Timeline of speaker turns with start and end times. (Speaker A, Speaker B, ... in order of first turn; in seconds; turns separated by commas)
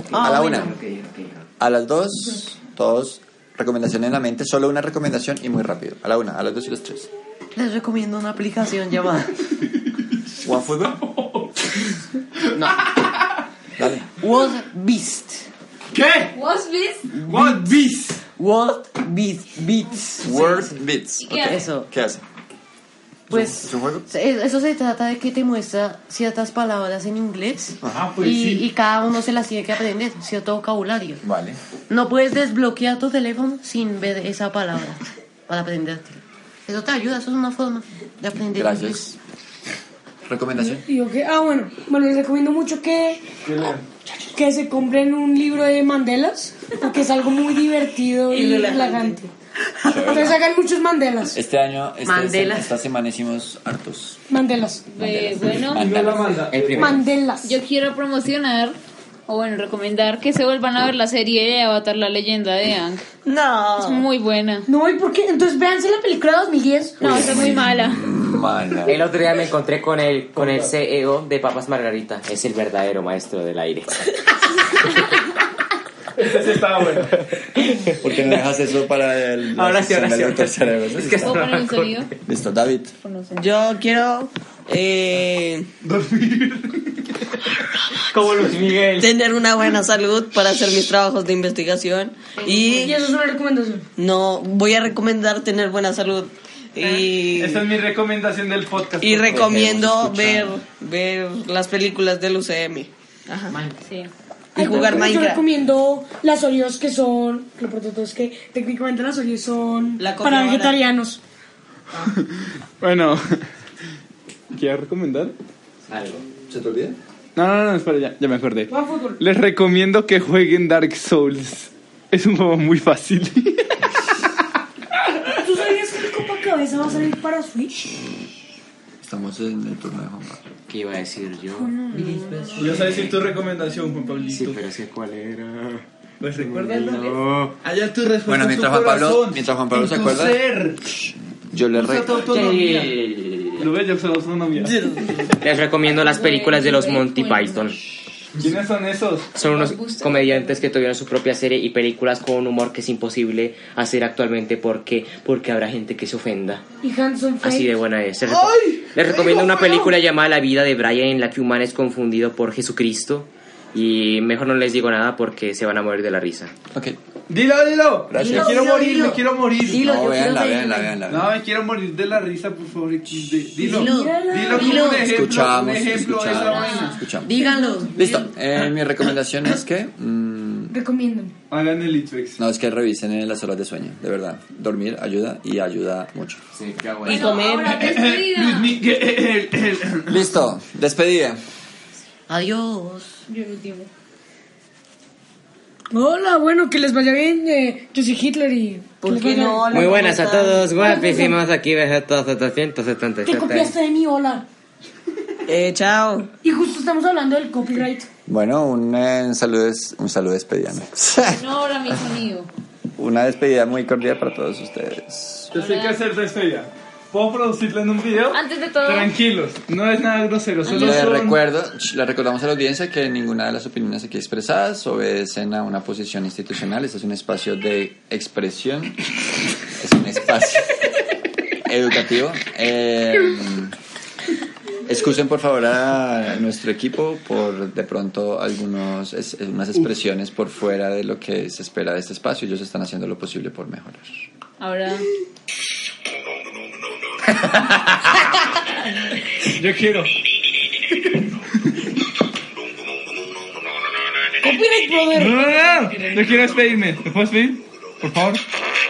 Speaker A: 0.1-1.4, Speaker B: 0.1-0.7, Speaker C: 0.1-0.7, Speaker C: 1.6-7.1, Speaker B: 7.5-9.5, Speaker C: 10.4-11.0, Speaker D: 11.0-11.6, Speaker B: 12.5-12.9, Speaker C: 13.8-14.1, Speaker B: 14.1-15.5, Speaker D: 15.9-16.4, Speaker E: 16.3-17.1, Speaker B: 17.2-17.7, Speaker D: 17.2-18.2, Speaker B: 18.4-20.7, Speaker C: 20.2-22.2, Speaker E: 21.2-21.6, Speaker B: 21.4-21.9, Speaker C: 23.3-24.1, Speaker B: 23.3-31.2, Speaker C: 27.8-28.1, Speaker D: 27.9-28.7, Speaker C: 31.2-31.6, Speaker B: 31.9-39.1, Speaker C: 38.5-39.1, Speaker C: 40.2-40.8, Speaker F: 40.6-43.2, Speaker D: 43.4-43.9, Speaker F: 44.3-49.3, Speaker G: 48.3-49.2, Speaker C: 49.8-50.4, Speaker F: 49.9-51.4, Speaker C: 51.3-54.2, Speaker B: 52.0-52.7, Speaker F: 54.3-54.9, Speaker E: 54.9-56.0, Speaker C: 55.0-56.5, Speaker D: 55.7-57.0, Speaker A: 56.5-57.0, Speaker F: 56.8-57.5, Speaker E: 57.4-58.8, Speaker E: 59.3-63.0, Speaker G: 63.2-64.1, Speaker E: 63.8-64.7, Speaker F: 64.7-67.5, Speaker C: 67.0-69.1, Speaker E: 67.0-68.1, Speaker A: 68.8-75.0, Speaker D: 70.3-70.7, Speaker D: 76.2-77.2, Speaker A: 77.2-78.3, Speaker C: 78.0-81.4, Speaker A: 79.5-82.1, Speaker E: 81.2-82.1, Speaker C: 82.2-83.0, Speaker E: 83.0-83.5, Speaker G: 83.3-85.7, Speaker D: 85.8-87.6, Speaker A: 88.1-89.1, Speaker G: 89.0-93.0, Speaker E: 92.4-92.9, Speaker F: 92.8-93.8, Speaker G: 94.0-97.7, Speaker E: 96.8-97.1, Speaker D: 97.3-99.5, Speaker G: 99.0-103.6, Speaker C: 99.3-100.6, Speaker B: 103.5-103.8, Speaker E: 103.8-104.1, Speaker F: 104.5-111.2, Speaker G: 104.5-105.4, Speaker G: 110.0-110.8, Speaker D: 111.9-113.5, Speaker D: 114.5-115.3, Speaker A: 115.9-116.2, Speaker C: 116.4-117.0, Speaker D: 117.3-124.0, Speaker F: 118.7-119.2, Speaker D: 125.0-125.3, Speaker F: 125.3-127.9, Speaker C: 129.0-130.5, Speaker A: 130.7-133.1, Speaker B: 131.9-133.0, Speaker D: 132.6-134.6, Speaker A: 134.3-135.8, Speaker D: 136.2-140.9, Speaker A: 136.3-137.5, Speaker C: 138.3-140.4, Speaker C: 141.5-142.3, Speaker D: 141.7-145.3, Speaker A: 142.2-143.7, Speaker G: 144.6-145.4, Speaker A: 145.4-147.8, Speaker E: 145.9-147.8, Speaker D: 148.3-149.4, Speaker A: 149.3-156.6, Speaker E: 149.6-150.6, Speaker F: 156.8-157.7, Speaker A: 157.4-166.5, Speaker D: 158.2-159.0, Speaker F: 159.3-159.8, Speaker C: 166.7-167.0, Speaker D: 167.3-169.9, Speaker C: 168.1-168.6, Speaker B: 168.2-171.0, Speaker C: 169.7-171.3, Speaker D: 171.1-177.0, Speaker B: 173.6-175.1, Speaker F: 173.6-174.9, Speaker C: 174.9-177.3, Speaker E: 176.3-177.0, Speaker B: 177.2-178.3, Speaker F: 177.4-177.9, Speaker C: 177.9-180.8, Speaker F: 180.7-181.3, Speaker D: 181.5-182.4, Speaker C: 182.4-186.4, Speaker A: 186.5-187.3, Speaker G: 187.0-188.0, Speaker E: 187.1-188.8, Speaker D: 187.8-190.2, Speaker C: 190.1-191.4, Speaker B: 192.3-193.1, Speaker E: 193.3-193.9, Speaker F: 195.9-200.0, Speaker G: 199.0-200.7, Speaker A: 199.7-203.7, Speaker F: 200.7-201.4, Speaker F: 203.2-204.4, Speaker G: 205.5-206.3, Speaker F: 206.4-208.1, Speaker C: 208.3-211.9, Speaker E: 211.2-212.5, Speaker C: 213.0-215.5, Speaker D: 215.5-221.4, Speaker E: 215.5-216.0, Speaker E: 218.3-219.1, Speaker E: 220.6-221.1, Speaker C: 220.6-229.0, Speaker C: 229.8-230.7, Speaker C: 231.6-233.7, Speaker C: 234.8-244.2, Speaker E: 244.6-245.1, Speaker D: 249.5-250.1, Speaker F: 254.4-256.0, Speaker D: 255.1-258.4